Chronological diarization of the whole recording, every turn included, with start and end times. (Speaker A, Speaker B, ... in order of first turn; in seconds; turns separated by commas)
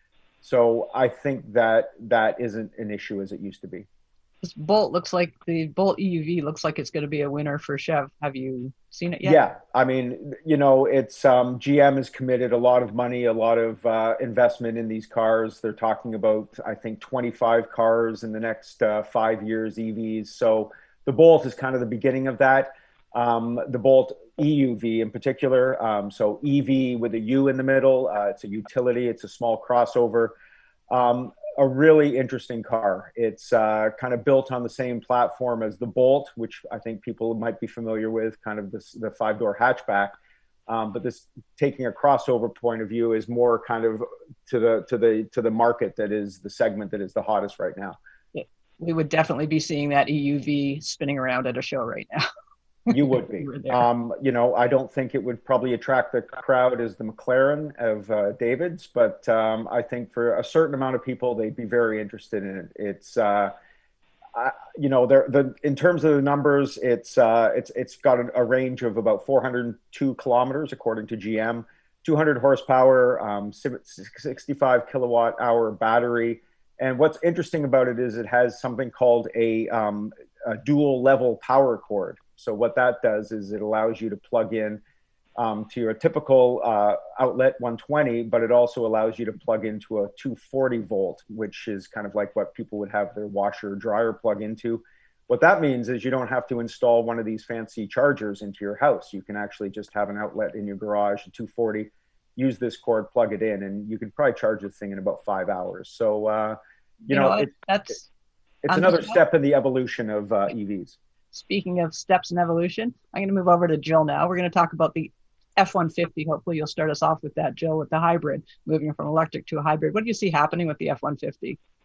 Speaker A: 0.4-3.9, Speaker B: 4.4-9.4, Speaker A: 9.2-30.3, Speaker A: 30.9-40.1, Speaker A: 40.7-48.0, Speaker B: 48.3-52.2, Speaker B: 52.9-53.8, Speaker A: 52.9-63.5, Speaker A: 64.3-84.8, Speaker A: 85.4-107.5, Speaker B: 107.1-108.1, Speaker A: 108.6-111.0, Speaker B: 108.7-109.2, Speaker B: 111.3-121.6